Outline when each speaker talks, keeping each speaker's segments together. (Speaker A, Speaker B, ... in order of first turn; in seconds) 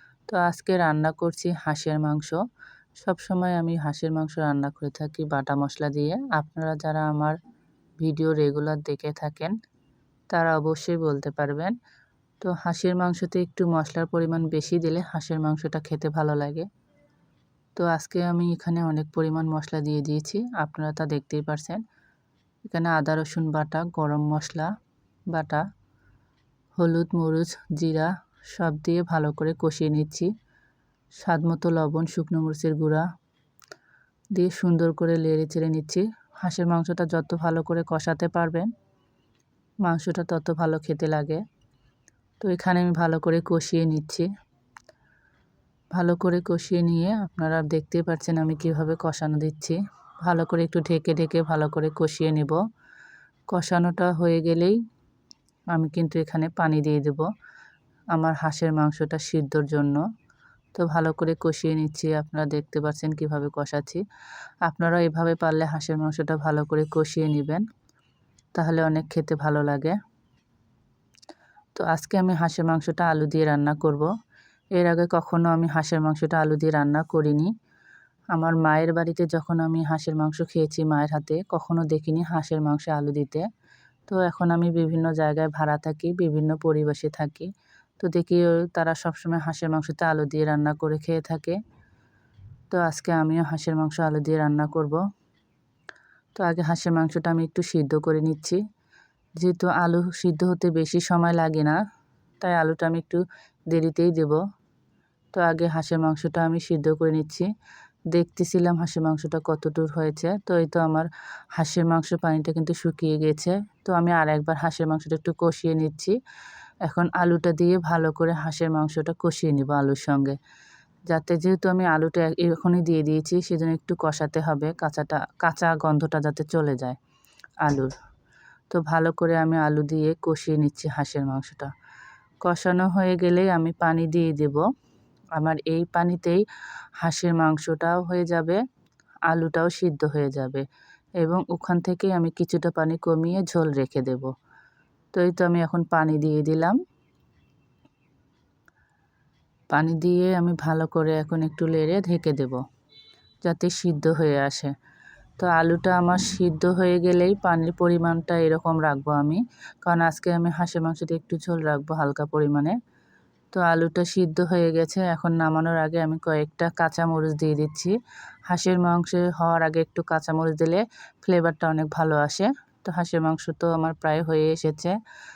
Speaker A: 0.3-2.4, 3.0-7.4, 8.0-9.5, 10.3-11.7, 12.4-16.7, 17.8-21.8, 22.7-24.7, 25.3-25.6, 26.8-30.3, 31.2-33.1, 34.4-38.7, 39.9-41.4, 42.4-44.3, 45.9-52.6, 53.5-54.8, 55.7-57.3, 58.1-60.0, 60.8-64.0, 64.7-67.6, 68.6-70.0, 71.8-74.1, 74.8-77.5, 78.3-83.5, 84.1-91.6, 92.7-95.0, 96.4-98.6, 99.4-101.8, 102.4-104.4, 105.3-107.5, 108.1-116.2, 116.9-120.4, 121.1-127.0, 127.6-127.9, 128.7-131.7, 132.4-134.6, 135.4-136.4, 137.0-138.6, 139.3-140.6, 141.2-144.3, 145.2-146.8, 149.7-152.6, 153.4-154.7, 155.4-162.8, 163.5-167.9, 168.5-174.9